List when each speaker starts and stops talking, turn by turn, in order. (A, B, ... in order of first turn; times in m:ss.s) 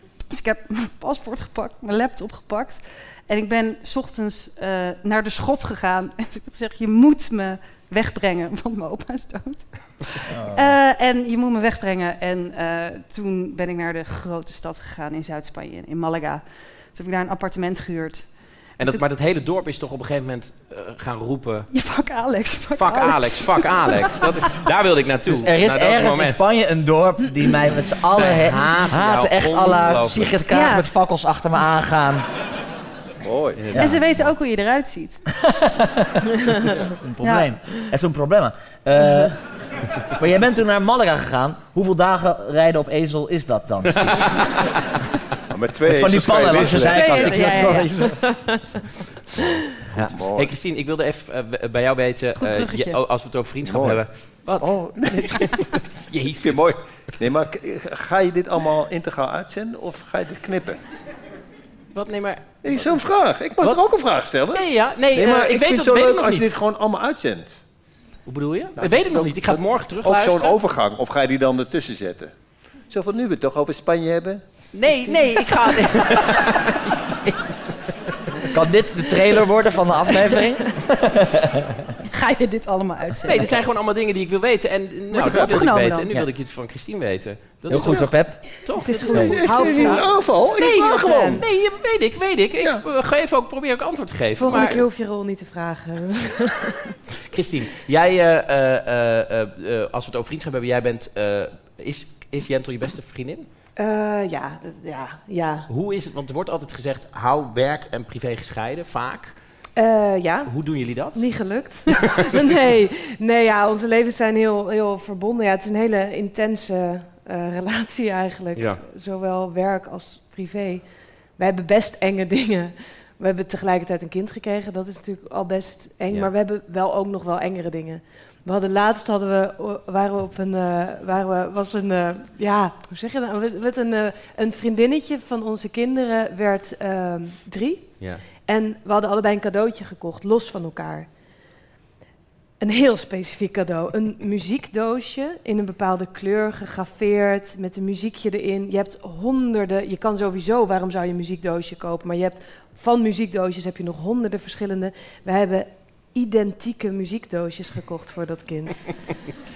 0:00.3-0:19.0 A
0:10.3-0:10.7 B
0:18.8-0:21.7 C
0:21.7-0:23.9 A
0:22.7-0:26.4 C
0:25.2-0:32.2 B
0:28.2-0:30.4 C
0:30.5-0:30.8 A
0:33.2-0:33.6 D
0:33.6-0:34.0 C
0:33.7-0:34.1 B
0:33.7-0:35.2 A
0:35.6-0:36.2 B
0:37.0-0:39.5 B
0:37.2-0:37.5 A
0:40.0-0:44.4 B
0:44.0-0:44.3 C
0:45.5-0:48.0 D
0:45.9-0:48.2 B
0:46.9-0:48.1 A
0:48.1-0:48.6 E
0:50.1-0:50.5 D
0:50.3-0:56.8 C
0:52.4-0:53.0 A
0:53.6-0:55.6 D
0:56.4-1:00.8 D
1:01.9-1:03.0 C
1:02.6-1:07.6 D
1:03.6-1:03.8 C
1:04.5-1:06.5 C
1:08.2-1:10.6 C
1:08.8-1:12.3 D
1:12.9-1:14.4 D
1:14.7-1:17.5 C
1:18.5-1:21.6 B
1:22.1-1:23.6 A
1:23.2-1:30.0 C
1:25.1-1:26.1 A
1:25.2-1:25.6 D
1:27.7-1:28.5 B
1:28.8-1:31.4 E
1:29.0-1:31.4 A
1:29.1-1:29.4 B
1:29.2-1:30.8 D
1:30.5-1:34.9 C
1:34.4-1:36.7 E
1:37.3-1:43.5 C
1:43.8-1:45.7 E
1:45.7-1:49.3 C
1:49.8-2:21.1 E
1:50.4-1:51.4 C
1:58.5-1:58.8 C
2:18.0-2:18.2 C
2:22.6-2:39.3 E